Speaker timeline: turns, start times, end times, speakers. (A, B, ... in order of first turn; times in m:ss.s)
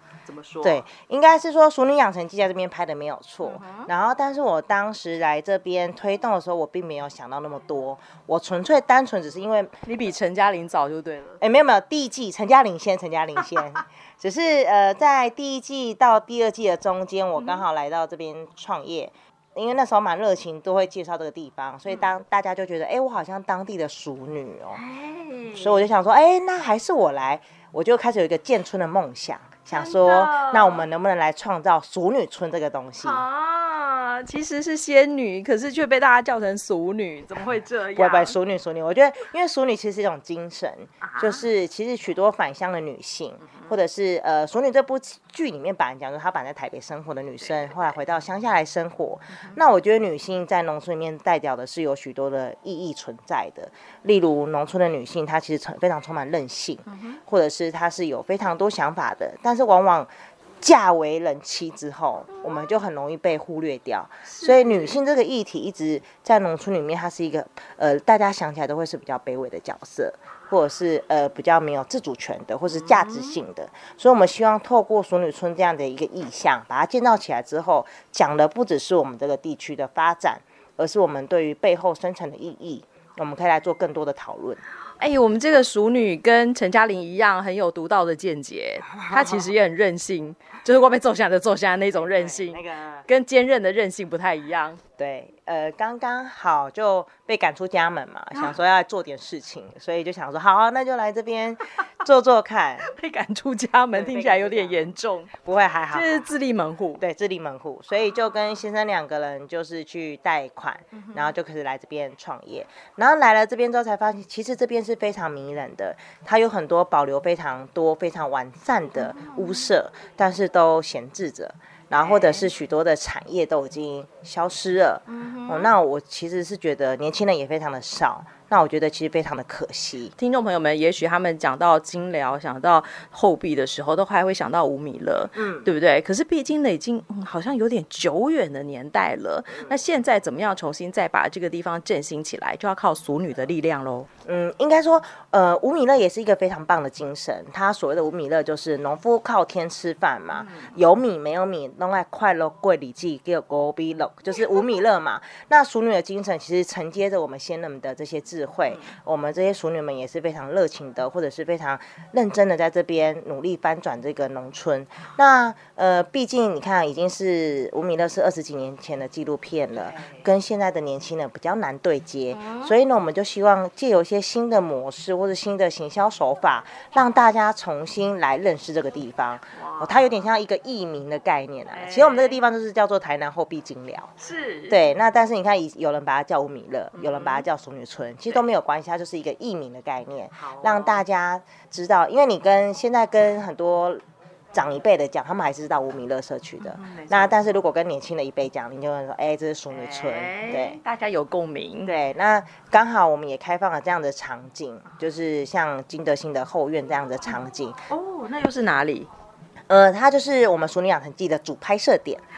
0:00.2-0:00.8 A
0:00.6-0:09.7 B
0:03.4-0:03.9 A
0:09.8-0:11.4 A
0:11.4-0:24.8 B
0:17.4-0:17.6 A
0:24.7-0:25.9 A
0:25.5-0:33.2 B
0:29.7-0:30.8 A
0:33.0-0:38.4 A
0:37.9-1:24.6 B
0:41.0-0:41.4 A
0:56.9-0:57.2 A
1:04.2-1:05.0 A
1:12.7-1:13.4 A
1:25.0-1:34.8 A
1:29.0-1:29.5 B
1:32.0-1:33.0 B
1:35.0-1:42.9 B
1:42.8-1:45.3 A
1:43.9-1:46.3 B
1:45.9-1:47.0 A
1:47.0-2:10.1 B
1:50.9-1:51.3 A
1:59.0-1:59.7 A
2:02.0-2:02.5 A
2:05.1-2:05.7 A
2:10.2-2:24.1 A
2:15.4-2:15.7 B
2:24.2-3:04.1 B
2:30.3-2:30.7 A
2:38.7-2:39.0 A
2:49.7-2:50.2 A
2:52.3-2:52.7 A
2:59.5-3:00.0 A
3:01.7-3:02.4 A
3:04.2-3:04.8 A
3:04.7-3:14.0 B
3:06.9-3:07.4 A
3:10.4-3:11.0 A
3:14.5-3:20.8 B
3:16.6-3:17.4 A
3:19.7-3:21.9 A
3:21.8-3:27.8 B
3:27.9-3:29.1 A
3:29.7-3:32.2 B